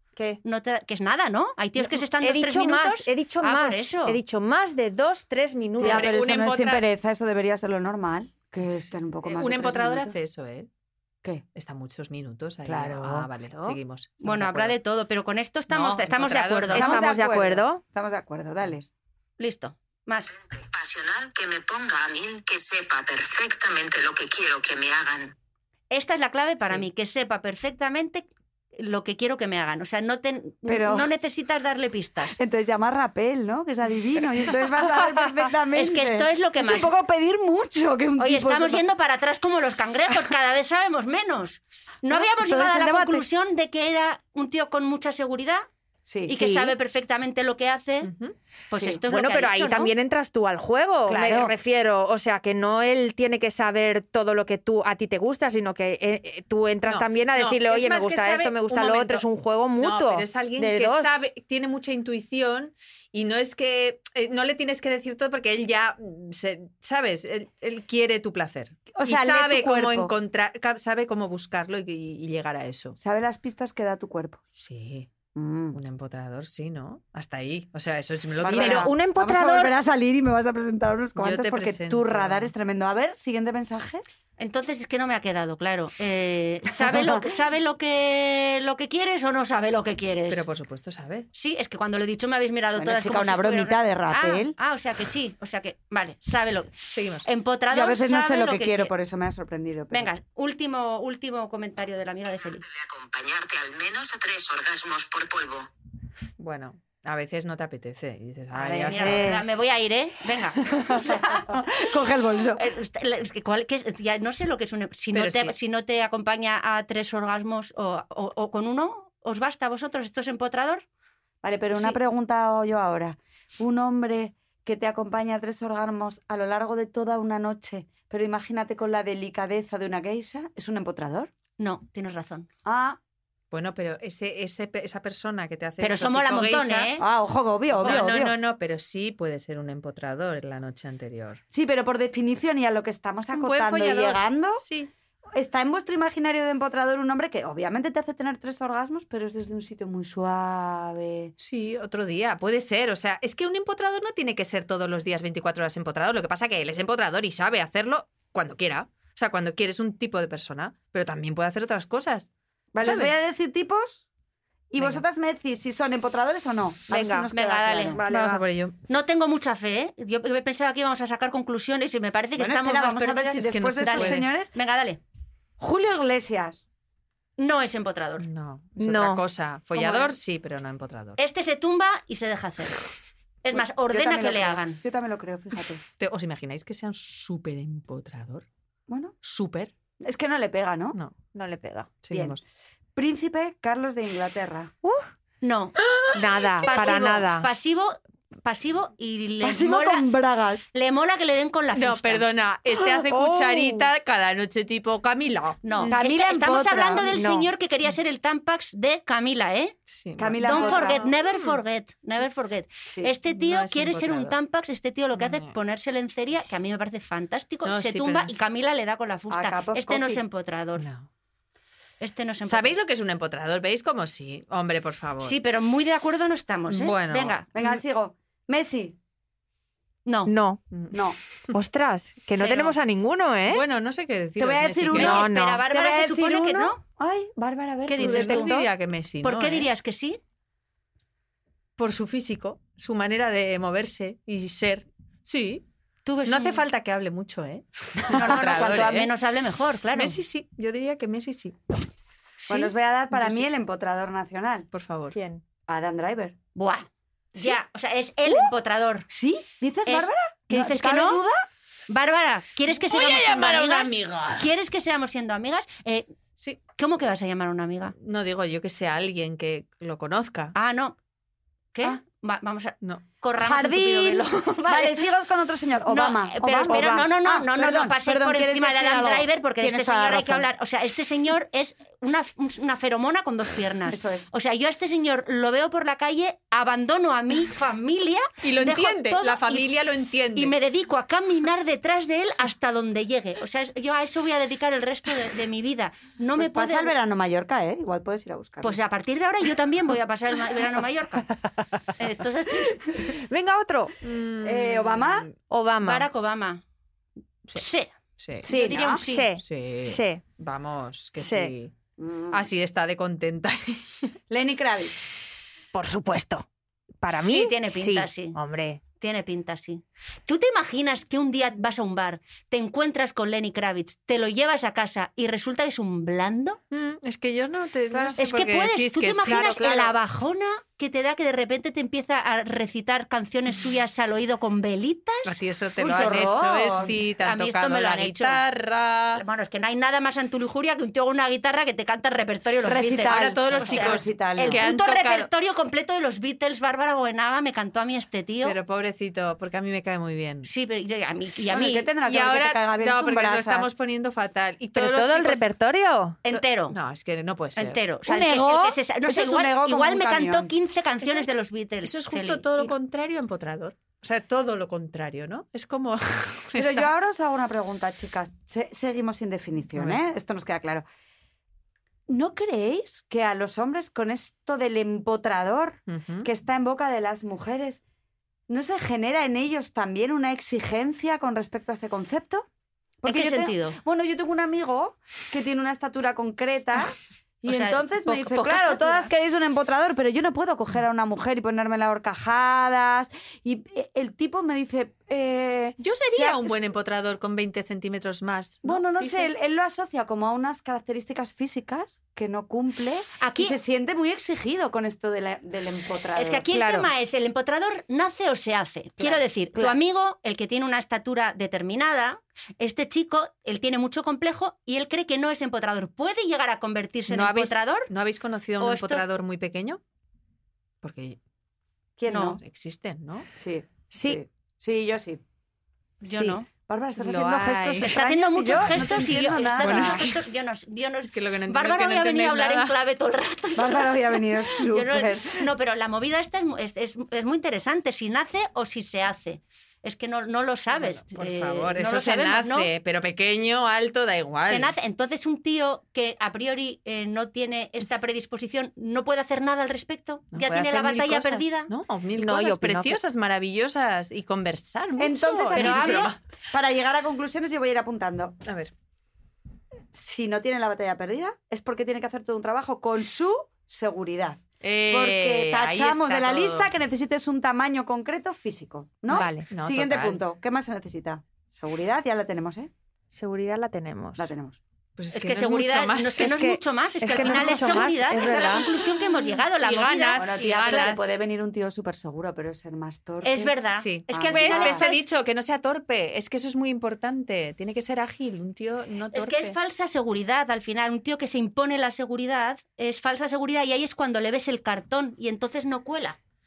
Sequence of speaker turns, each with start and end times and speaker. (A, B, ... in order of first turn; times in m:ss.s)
0:00.4-0:04.2 A
0:01.8-0:06.2 B
0:05.8-0:06.8 C
0:05.8-0:10.2 D
0:08.6-0:10.7 C
0:11.5-0:14.8 C
0:12.6-0:13.3 D
0:14.2-0:17.0 A
0:15.7-0:16.8 C
0:16.7-0:17.8 B
0:16.7-0:18.9 D
0:19.4-0:20.3 A
0:20.3-0:25.3 E
0:25.9-0:32.4 A
0:30.6-0:31.1 D
0:32.3-0:38.8 D
0:35.7-0:36.9 A
0:38.2-0:45.7 A
0:42.1-0:43.2 D
0:46.0-0:46.4 D
0:46.3-0:48.1 A
0:46.3-0:46.8 B
0:48.0-0:48.3 C
0:48.7-0:49.9 A
0:48.7-0:49.0 D
0:49.1-1:01.3 B
0:51.0-0:51.5 D
0:56.8-0:59.2 C
0:59.8-1:13.0 C
1:08.9-1:10.1 D
1:13.0-1:14.4 D
1:14.6-1:15.1 C
1:15.3-1:15.8 D
1:15.7-1:18.9 C
1:18.4-1:24.0 D
1:18.5-1:19.7 B
1:21.2-1:22.5 C
1:24.4-1:30.4 A
1:26.8-1:27.3 D
1:30.3-1:31.3 C
1:31.3-1:38.9 A
1:32.8-1:34.6 D
1:36.9-1:37.3 C
1:37.7-1:40.1 D
1:39.9-1:42.6 A
1:42.4-1:45.7 E
1:46.4-1:49.4 C
1:48.6-1:51.5 A
1:48.6-1:49.6 B
1:50.9-1:52.6 D
1:52.6-2:00.8 A
1:55.1-1:55.5 C
2:01.4-2:11.3 D
2:11.6-2:12.5 A
2:12.6-2:13.0 D
2:13.5-2:16.9 C
2:15.8-2:17.0 A
2:17.0-2:18.3 D
2:17.8-2:21.4 C
2:21.5-2:24.6 D
2:23.3-2:24.9 C
2:25.3-2:31.3 D
2:31.4-2:43.1 C
2:42.7-2:44.1 D
2:44.7-2:48.0 D
2:44.8-2:45.0 C
2:46.9-2:47.3 B
2:47.3-2:48.0 A
2:47.9-2:48.4 B
2:48.1-2:48.8 C
2:48.9-2:55.0 A
2:52.4-2:54.5 D
2:53.4-2:54.3 C
2:55.6-2:56.6 D
2:57.4-2:58.2 A
2:58.2-3:01.2 C
2:58.8-2:59.2 B
3:01.2-3:02.8 A
3:03.4-3:04.8 A
3:03.5-3:05.8 D
3:06.0-3:08.4 C
3:08.9-3:09.2 D
3:09.2-3:09.7 C
3:10.0-3:11.0 D
3:11.3-3:11.9 B
3:12.0-3:12.4 C
3:12.1-3:12.4 D
3:13.0-3:14.7 D
3:14.8-3:15.1 B
3:15.4-3:15.8 A
3:15.8-3:16.8 C
3:16.1-3:17.5 B
3:16.6-3:20.1 A
3:19.4-3:20.6 D
3:20.7-3:22.3 A
3:21.7-3:25.9 C
3:23.0-3:23.9 B
3:25.6-3:29.8 A
3:25.9-3:27.2 D
3:27.1-3:27.5 B
3:29.9-3:31.6 C
3:30.2-3:31.1 D
3:30.4-3:40.8 A
3:32.8-3:33.1 D
3:33.3-3:34.4 C
3:35.2-3:35.5 C
3:37.6-3:38.4 C
3:39.3-3:40.2 D
3:40.8-3:41.1 C
3:42.0-3:42.8 A
3:42.4-3:45.4 C
3:45.2-3:47.5 A
3:46.7-3:47.6 C
3:47.5-3:49.0 D
3:50.0-3:50.3 A
3:50.3-3:50.6 B
3:50.7-3:51.5 C
3:50.9-3:51.2 D
3:51.5-3:53.6 B
3:52.4-3:52.7 A
3:53.5-3:55.2 C
3:54.4-3:58.6 D
3:54.9-3:56.8 A
3:55.0-3:55.6 B
3:57.9-3:58.6 A
3:58.0-3:59.7 C
3:59.2-4:00.2 A
4:01.8-4:05.6 C
4:06.0-4:06.6 A
4:06.2-4:09.1 C
4:08.1-4:10.2 A
4:09.9-4:11.6 C
4:12.4-4:12.7 A
4:12.5-4:14.7 D
4:13.1-4:13.4 C
4:14.7-4:15.2 C
4:15.1-4:15.4 B
4:15.7-4:16.4 D
4:16.6-4:19.1 A
4:19.1-4:21.4 D
4:19.8-4:21.2 A
4:21.9-4:26.1 A
4:22.7-4:24.5 C
4:26.8-4:27.9 A
4:28.0-4:30.5 C
4:30.5-4:31.0 A
4:31.7-4:35.0 A
4:33.4-4:40.5 D
4:35.9-4:49.7 A
4:43.9-4:44.3 D
4:48.4-4:50.5 C
4:50.3-4:56.9 A
4:56.4-4:58.8 D
4:58.6-5:01.3 A
5:02.0-5:02.8 A
5:03.0-5:03.9 B
5:04.0-5:05.3 C
5:04.4-5:05.3 D
5:05.5-5:06.1 B
5:05.8-5:06.6 A
5:07.5-5:07.9 A
5:08.2-5:08.5 C
5:08.4-5:09.0 D
5:08.4-5:09.3 A
5:08.9-5:10.2 B
5:09.4-5:11.7 C
5:11.2-5:11.5 B
5:12.0-5:12.4 D
5:12.3-5:14.1 C
5:14.3-5:15.0 D
5:15.7-5:16.4 B
5:17.0-5:18.8 B
5:17.1-5:18.4 A
5:19.0-5:26.6 A
5:26.7-5:29.9 C
5:27.9-5:28.2 D
5:28.2-5:35.4 A
5:29.3-5:29.6 B
5:35.2-5:39.2 C
5:35.8-5:37.0 D
5:37.2-5:38.4 A
5:39.1-5:48.6 A
5:42.6-5:44.6 D
5:43.1-5:45.3 C
5:48.4-5:50.5 C
5:50.4-5:51.9 A
5:51.5-5:53.7 D
5:52.0-5:55.5 C
5:54.8-5:56.2 B
5:56.2-5:56.8 A
5:56.3-5:57.8 C
5:57.6-6:02.7 A
5:58.0-6:00.5 D
6:01.0-6:01.3 C
6:01.8-6:06.9 C
6:06.6-6:10.8 D
6:09.7-6:10.0 C
6:12.1-6:17.8 D
6:15.9-6:16.3 C
6:18.5-6:22.5 D
6:23.0-6:36.6 D
6:23.0-6:23.8 A
6:27.5-6:29.1 A
6:35.8-6:39.3 C
6:38.6-6:46.4 D
6:43.2-6:43.6 A
6:46.1-6:57.9 A
6:46.5-6:46.9 B
6:49.0-6:49.8 D
6:57.1-6:59.8 C
6:58.6-6:59.0 A
7:00.8-7:01.2 C
7:02.0-7:02.4 D
7:02.1-7:02.4 A
7:02.3-7:03.3 C
7:03.3-7:05.2 D
7:03.9-7:04.2 B
7:06.0-7:06.4 A
7:06.0-7:06.4 B
7:06.6-7:10.0 D
7:07.0-7:08.0 C
7:07.8-7:13.9 A
7:08.5-7:10.3 C
7:11.0-7:12.7 C
7:13.6-7:15.4 D
7:14.5-7:22.7 A
7:20.7-7:24.7 C
7:24.4-7:31.7 A
7:30.3-7:36.2 C
7:32.2-7:33.0 B
7:35.0-7:38.4 D
7:35.5-7:36.1 A
7:38.4-7:38.7 C
7:39.9-7:52.7 D
7:44.6-7:46.7 C
7:49.1-7:49.5 B
7:49.1-7:50.2 C
7:53.1-7:54.3 B
7:54.2-7:54.6 D
7:55.0-7:56.6 C
7:55.1-8:01.0 A
7:56.2-7:58.7 B
7:57.1-8:01.0 C
8:00.2-8:03.6 D
8:03.2-8:05.0 A
8:03.8-8:09.6 C
8:04.1-8:04.9 D
8:09.1-8:16.2 A